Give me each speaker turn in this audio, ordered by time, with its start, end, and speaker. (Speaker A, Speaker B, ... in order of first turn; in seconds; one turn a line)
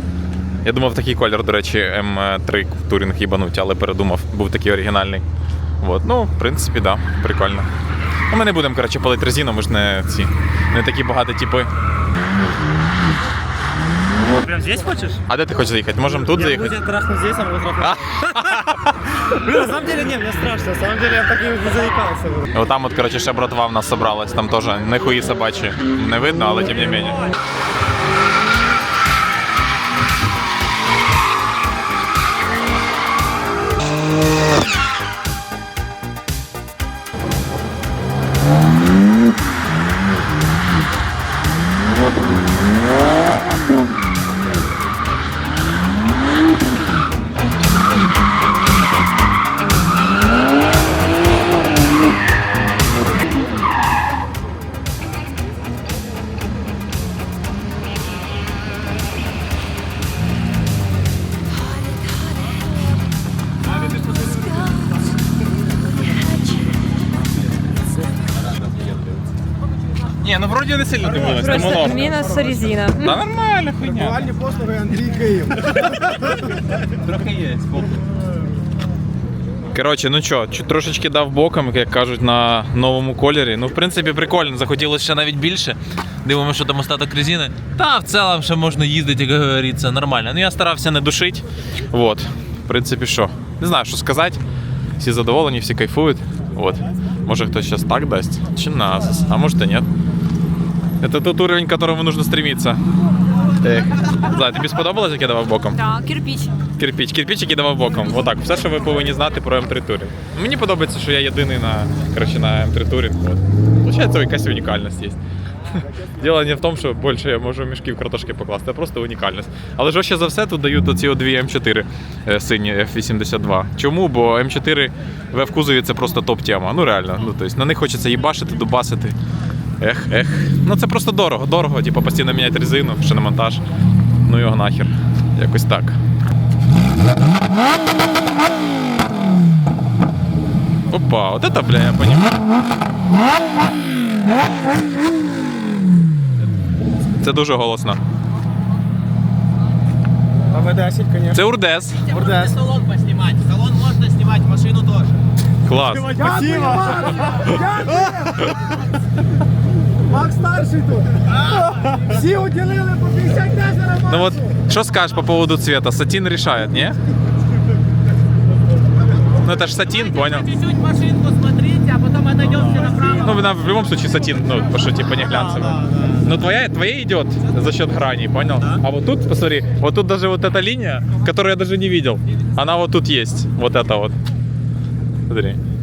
Speaker A: 0.6-5.2
Speaker A: 5.8-7.7
Speaker A: 8.3-11.7
Speaker B: 14.4-15.2
Speaker A: 15.3-16.8
Speaker B: 16.0-22.5
Speaker A: 17.8-18.9
Speaker A: 22.5-27.2
Speaker A: 70.2-72.3
Speaker C: 71.3-73.2
Speaker A: 73.0-74.3
Speaker D: 73.9-76.0
Speaker B: 75.7-76.3
Speaker B: 77.0-77.9
Speaker A: 79.7-94.4
Speaker A: 95.0-99.9
Speaker A: 101.0-102.8
Speaker A: 103.6-105.8
Speaker C: 105.8-106.6
Speaker A: 106.8-115.2
Speaker A: 115.8-129.2
Speaker A: 129.8-133.6
Speaker A: 134.2-136.0
Speaker A: 140.9-142.3
Speaker A: 147.2-148.0
Speaker D: 150.5-151.4
Speaker A: 151.3-152.1
Speaker B: 152.0-155.2
Speaker D: 152.1-152.6
Speaker A: 155.6-156.3
Speaker B: 155.7-157.5
Speaker D: 156.1-158.5
Speaker A: 157.3-158.8
Speaker D: 160.0-164.4
Speaker B: 161.4-162.1
Speaker A: 164.1-167.0
Speaker A: 169.4-170.5
Speaker B: 170.4-173.3
Speaker A: 172.9-184.1
Speaker B: 175.0-176.4
Speaker B: 178.6-178.8
Speaker A: 185.3-185.6